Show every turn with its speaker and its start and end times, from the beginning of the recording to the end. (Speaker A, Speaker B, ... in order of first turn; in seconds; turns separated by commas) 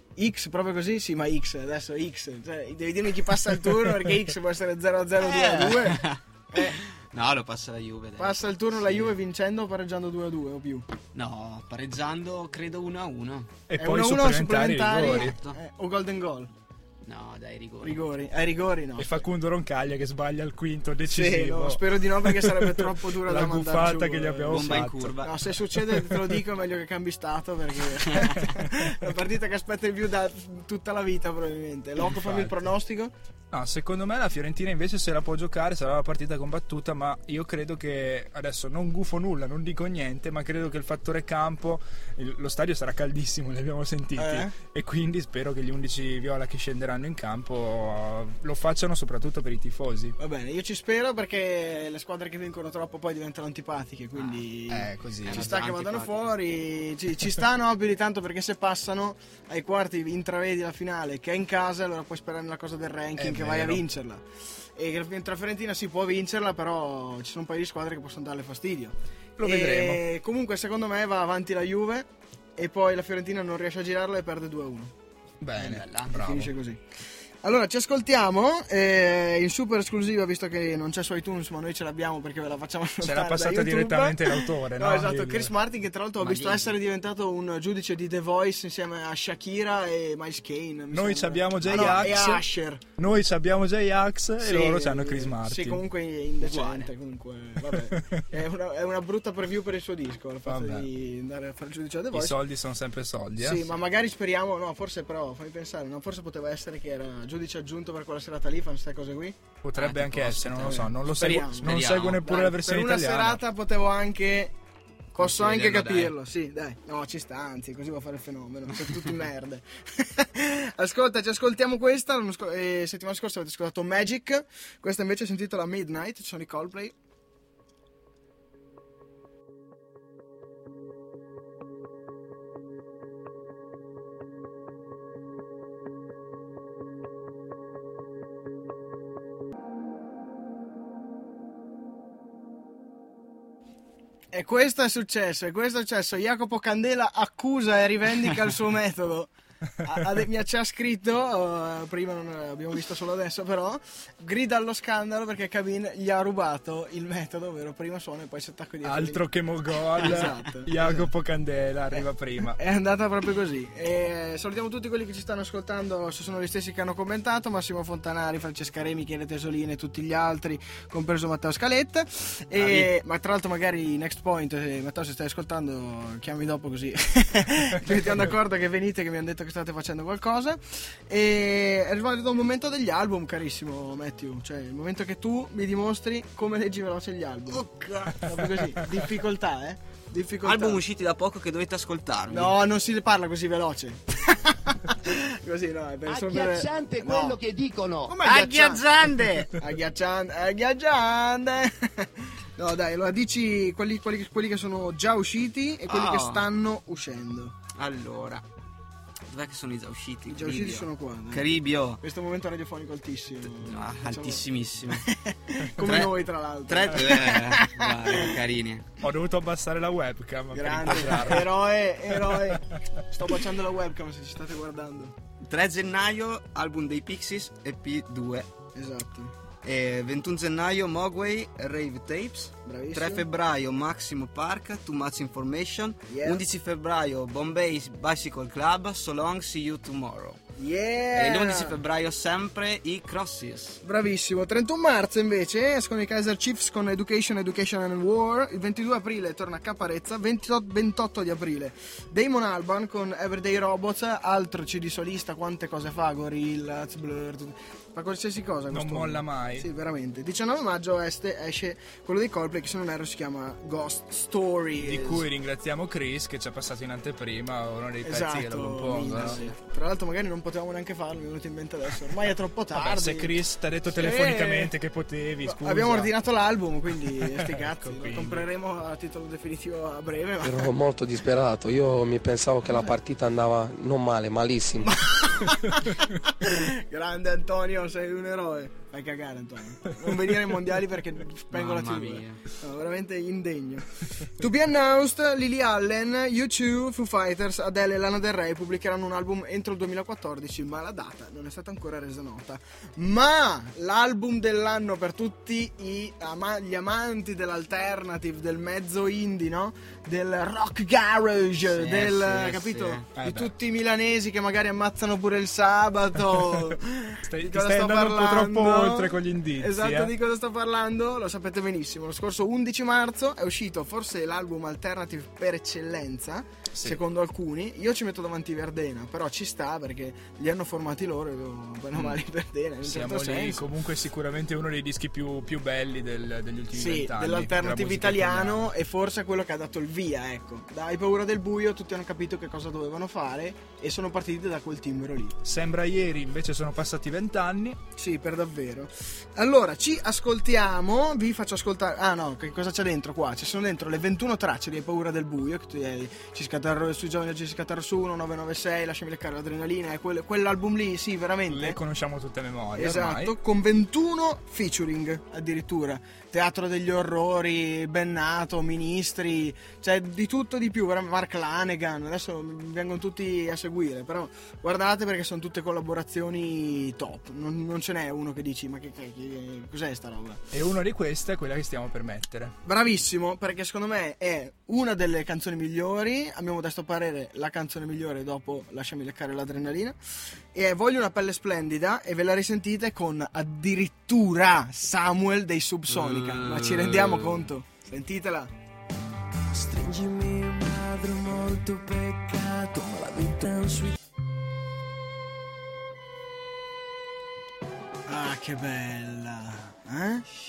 Speaker A: 0.2-6.8, Speaker B: 5.2-9.2, Speaker A: 8.2-10.9, Speaker B: 11.1-13.5, Speaker C: 13.7-15.4, Speaker A: 13.8-16.5, Speaker B: 15.0-15.6, Speaker B: 17.1-18.0, Speaker A: 17.8-19.2, Speaker C: 19.0-25.2, Speaker A: 21.1-33.1, Speaker B: 24.5-25.5, Speaker C: 25.8-26.4, Speaker B: 28.1-28.5, Speaker C: 32.0-32.5, Speaker C: 33.5-50.2, Speaker A: 44.2-44.5, Speaker A: 50.2-64.2, Speaker B: 54.1-54.4, Speaker C: 54.7-55.7, Speaker B: 55.2-56.4, Speaker C: 63.2-63.9, Speaker A: 64.8-74.9, Speaker C: 69.4-70.0, Speaker C: 75.4-76.5, Speaker B: 75.6-76.1, Speaker A: 76.1-76.8, Speaker A: 77.4-92.8, Speaker C: 83.0-85.5, Speaker B: 86.2-86.8, Speaker C: 90.9-92.5, Speaker C: 93.0-95.8, Speaker A: 94.4-102.4, Speaker B: 96.4-96.9, Speaker C: 97.6-98.3, Speaker C: 100.5-100.9, Speaker C: 102.1-103.7, Speaker A: 103.4-109.4, Speaker C: 109.6-113.4, Speaker B: 109.7-110.9, Speaker A: 110.6-114.5, Speaker B: 111.5-112.2, Speaker A: 115.2-126.9, Speaker B: 115.2-116.1, Speaker A: 144.3-159.2, Speaker C: 158.8-162.6, Speaker A: 159.9-161.1, Speaker A: 161.9-190.8, Speaker B: 172.6-172.9, Speaker B: 187.5-188.2, Speaker B: 190.4-192.6, Speaker A: 192.3-197.4, Speaker D: 196.1-198.2, Speaker A: 198.1-207.6, Speaker B: 198.2-199.5, Speaker B: 205.9-206.5, Speaker B: 207.8-208.4, Speaker B: 209.3-212.0, Speaker A: 210.3-214.4, Speaker B: 213.4-215.1, Speaker A: 215.0-218.3, Speaker B: 215.8-216.2, Speaker B: 216.7-218.9, Speaker C: 219.0-222.8, Speaker A: 220.5-225.2, Speaker B: 225.4-228.5, Speaker A: 228.8-229.3, Speaker B: 229.6-240.4, Speaker A: 232.7-233.2, Speaker A: 236.1-236.4, Speaker A: 240.6-241.8, Speaker B: 241.1-243.8, Speaker A: 243.8-265.3, Speaker C: 258.7-259.7, Speaker C: 264.8-269.4, Speaker A: 268.0-273.4, Speaker B: 269.1-269.6, Speaker C: 272.7-276.1, Speaker A: 273.9-274.7, Speaker A: 275.4-280.7, Speaker C: 277.1-278.5, Speaker E: 280.4-284.9, Speaker A: 284.8-333.6, Speaker B: 291.5-292.4, Speaker B: 311.6-313.1, Speaker C: 313.2-313.5, Speaker C: 317.2-320.1, Speaker C: 326.7-327.0, Speaker C: 332.8-338.7, Speaker A: 336.7-345.4, Speaker C: 345.4-347.8, Speaker A: 348.0-361.8, Speaker C: 361.5-363.4, Speaker A: 362.8-380.4, Speaker C: 380.5-382.6, Speaker A: 382.6-390.0, Speaker A: 390.5-398.5, Speaker B: 395.9-397.5, Speaker F: 399.5-403.9, Speaker A: 408.1-410.3